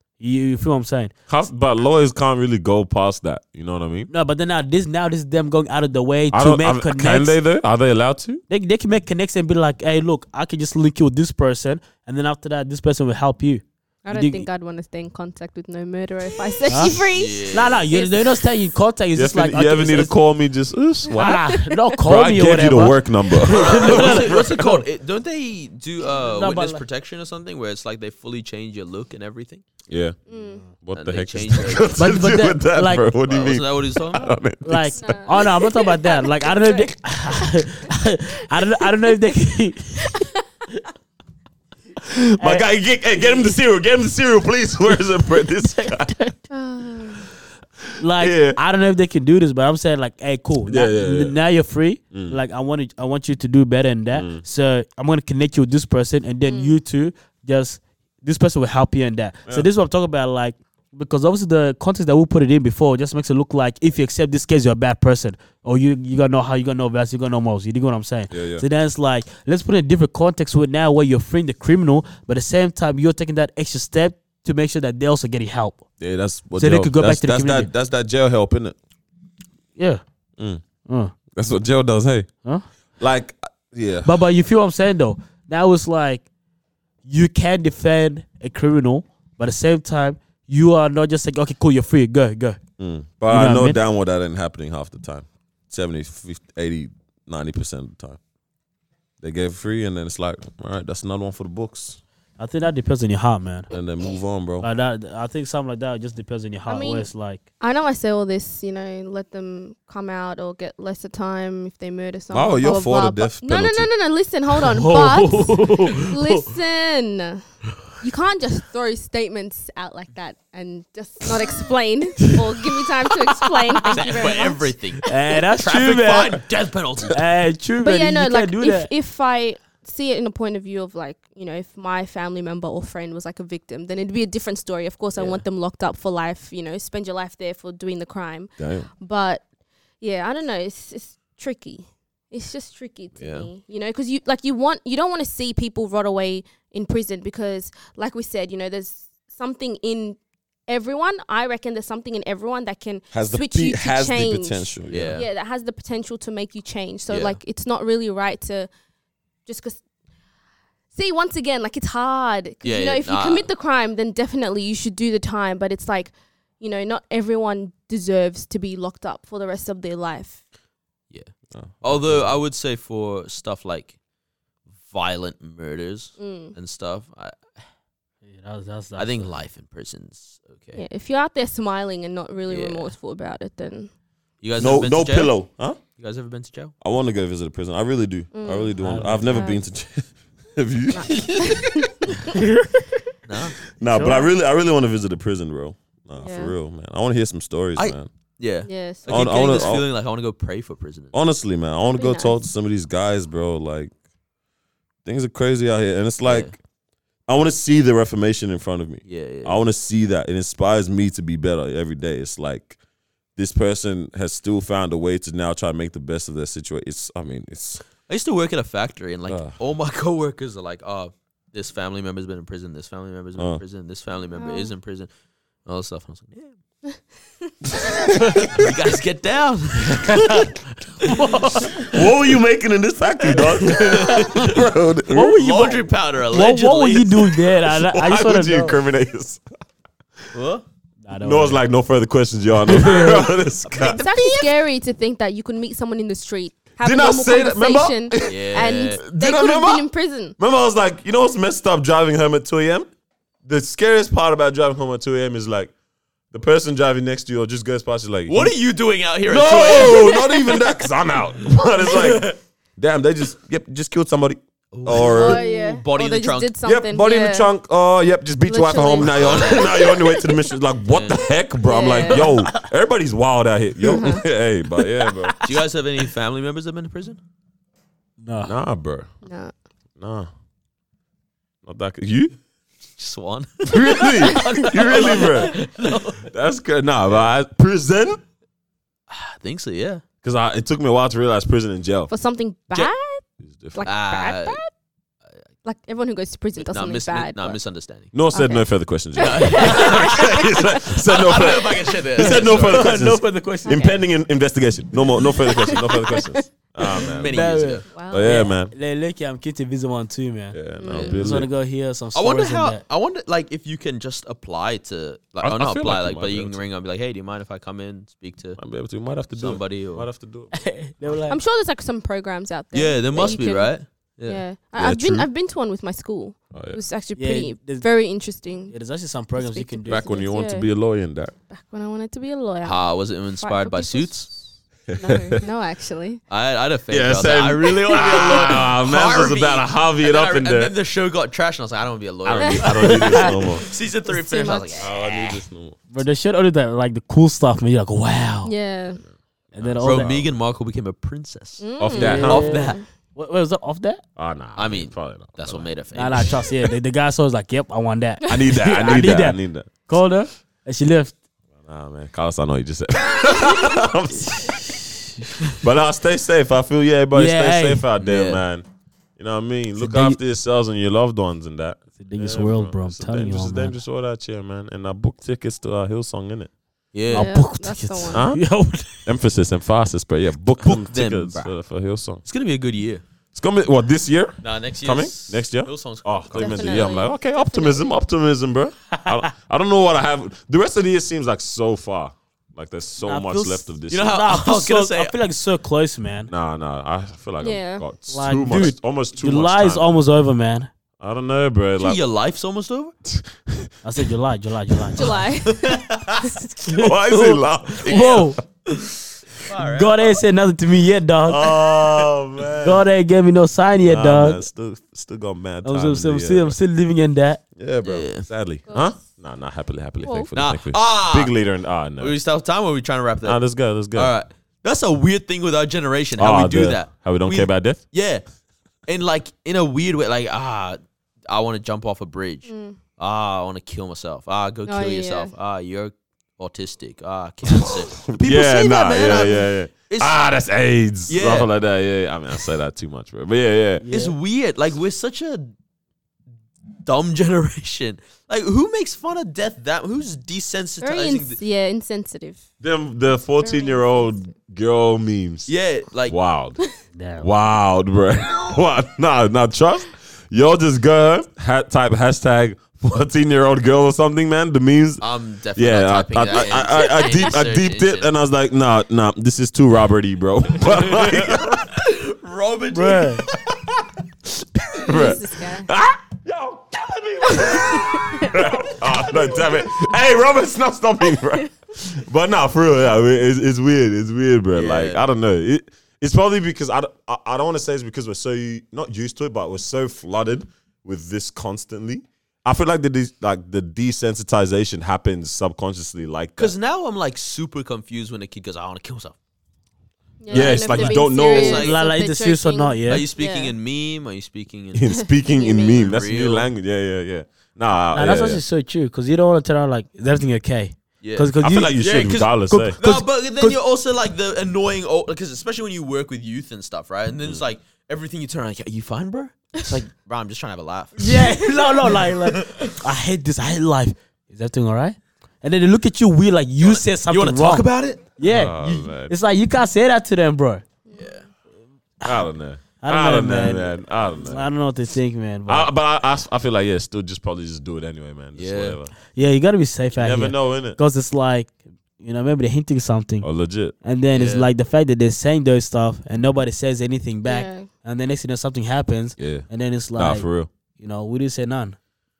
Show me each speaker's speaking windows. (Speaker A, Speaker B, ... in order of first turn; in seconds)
Speaker A: 0.2-1.1, 4.1-7.4, 8.5-14.5, 16.7-20.1, 21.1-24.9, 26.3-26.8, 30.3-30.6, 31.9-33.1, 34.6-40.1, 42.4-42.6, 45.6-46.4, 48.0-75.8, 76.6-77.7, 79.8-80.0, 80.9-81.1, 84.0-86.2, 87.0-92.6, 93.3-93.8, 102.4-103.7, 104.6-107.4, 114.6-116.5, 125.1-126.4, 127.1-128.9, 178.2-179.3, 188.8-189.3, 192.4-192.6, 193.9-194.3, 231.0-231.9, 235.1-238.8, 241.0-241.6, 242.7-243.3, 272.2-272.7, 275.0-275.5, 278.2-278.5, 285.2-285.7, 302.2-304.0, 307.3-310.6, 311.1-312.8, 320.5-321.4, 327.2-327.9, 328.7-330.1, 345.9-348.5, 349.5-350.1, 351.9-354.0, 355.9-361.1, 365.2-365.5, 367.1-367.8, 369.8-370.2, 372.0-373.8, 377.1-379.1, 388.9-389.2, 393.0-396.3, 398.1-400.7, 403.8-405.1, 406.8-407.3, 407.9-408.4, 409.6-411.5, 412.6-414.4, 415.6-417.4, 443.8-444.2, 456.9-457.3, 472.7-473.2, 500.6-503.1, 507.9-511.8, 512.5-513.6, 521.0-530.6, 532.8-535.7, 539.1-543.3, 543.8-550.3, 550.8-551.8
Speaker B: 1.3-4.1, 6.3-8.4, 19.1-21.5, 22.1-24.7, 29.9-30.2, 30.8-35.0, 42.3-46.1, 48.2-48.6, 50.7-51.4, 52.1-52.4, 54.1-54.4, 68.3-68.7, 76.0-78.8, 81.3-82.3, 83.0-84.1, 92.8-98.2, 99.2-102.0, 103.7-104.7, 112.3-113.9, 138.6-138.9, 153.1-155.2, 171.5-172.3, 184.6-185.8, 186.8-191.8, 193.8-198.1, 199.1-199.9, 201.1-203.9, 205.1-206.6, 207.3-212.8, 213.4-217.8, 219.3-219.6, 227.7-228.7, 231.8-235.4, 237.6-239.4, 241.2-244.0, 246.8-249.8, 250.4-252.9, 253.4-255.7, 256.3-258.5, 259.3-265.4, 266.6-275.4, 278.4-279.1, 280.0-280.3, 281.6-282.3, 283.7-285.7, 286.2-288.2, 290.2-292.1, 293.4-293.9, 298.1-307.5, 308.1-308.7, 310.5-311.5, 315.4-316.6, 318.6-320.5, 324.8-325.3, 326.5-326.8, 329.9-331.3, 334.9-335.4, 336.9-340.7, 342.2-343.7, 344.8-345.8, 349.1-350.3, 351.8-352.6, 354.2-355.7, 358.2-359.7, 361.6-364.8, 365.5-368.6, 369.2-376.5, 378.1-378.4, 379.1-382.2, 383.3-394.2, 396.3-399.9, 401.0-402.0, 403.1-403.7, 406.7-408.3, 411.3-412.9, 413.9-416.6, 417.6-422.2, 423.2-424.1, 426.2-427.8, 437.5-443.9, 452.6-455.5, 456.1-456.6, 457.2-465.0, 465.6-471.7, 473.5-473.9, 474.6-496.6, 500.3-501.6, 504.7-508.4, 511.4-512.8, 528.2-529.1, 532.0-534.5, 535.5-538.9, 539.9-540.8, 543.2-543.7, 549.2-550.5
Speaker C: 14.1-18.2, 21.1-21.8, 30.3-30.6, 35.0-37.5, 40.0-40.4, 46.5-47.3, 56.5-56.8, 106.7-107.1, 107.6-117.4, 118.0-125.1, 127.8-139.4, 140.0-158.7, 159.5-159.8, 160.9-170.4, 176.2-176.6, 180.8-183.9, 188.3-188.7, 189.3-189.6, 190.9-192.2, 196.2-196.5, 198.7-199.1, 201.8-202.4, 224.3-224.7, 243.8-250.3, 259.7-260.6, 264.9-267.5, 268.4-270.5, 271.6-272.4, 273.9-274.3, 279.2-279.5, 284.3-284.6, 292.1-293.2, 293.7-294.7, 295.6-297.6, 298.3-300.9, 303.7-304.0, 305.1-306.4, 307.9-308.3, 310.8-311.3, 321.3-328.8, 329.4-330.7, 331.5-334.4, 334.9-336.2, 337.9-338.6, 342.4-344.9, 348.5-349.0, 351.6-352.8, 377.1-378.2, 386.4-388.0, 397.4-397.9, 405.0-406.5, 418.7-419.0, 420.0-420.3, 432.5-432.8, 434.7-435.3, 450.8-452.4, 453.4-454.1, 466.8-467.3, 474.9-475.7, 477.3-478.6, 500.2-503.5, 504.9-505.9, 530.9-531.1, 547.2-547.7
Speaker D: 17.1-17.9, 23.5-29.6, 30.9-32.0, 33.3-34.3, 123.9-127.2, 135.1-135.4, 143.2-143.5, 154.9-155.3, 157.1-157.4, 162.6-163.5, 171.1-174.0, 174.8-177.5, 179.0-180.8, 182.5-182.9, 184.4-185.4, 186.0-186.7, 193.3-193.6, 197.8-201.1, 206.2-206.5, 209.1-209.6, 218.1-225.1, 225.7-226.6, 228.5-230.4, 231.0-231.8, 233.7-234.5, 235.3-237.3, 240.3-240.7, 243.7-244.5, 248.2-249.0, 258.3-260.3, 261.9-262.3, 264.7-266.5, 269.0-269.9, 270.9-271.3, 275.4-277.2, 283.0-286.2, 289.1-290.0, 293.9-294.6, 296.6-298.1, 299.2-303.0, 306.9-307.9, 310.9-311.2, 312.1-318.6, 319.3-320.1, 322.7-324.4, 332.6-334.3, 336.3-345.4, 349.8-352.8, 354.6-356.4, 368.0-368.4, 376.9-377.4, 380.6-381.5, 382.2-383.0, 384.4-387.0, 393.9-395.1, 401.8-402.9, 405.5-406.4, 407.9-408.3, 409.4-410.2, 417.8-418.3, 420.4-421.3, 422.0-428.2, 428.9-440.2, 441.1-441.5, 443.9-445.5, 446.8-451.4, 455.5-456.2, 465.0-468.1, 470.6-473.4, 484.5-485.0, 496.4-499.2, 500.3-500.6, 501.1-501.8, 502.9-506.5, 511.0-522.7, 526.6-528.1, 531.0-531.3, 538.4-538.8, 544.1-544.5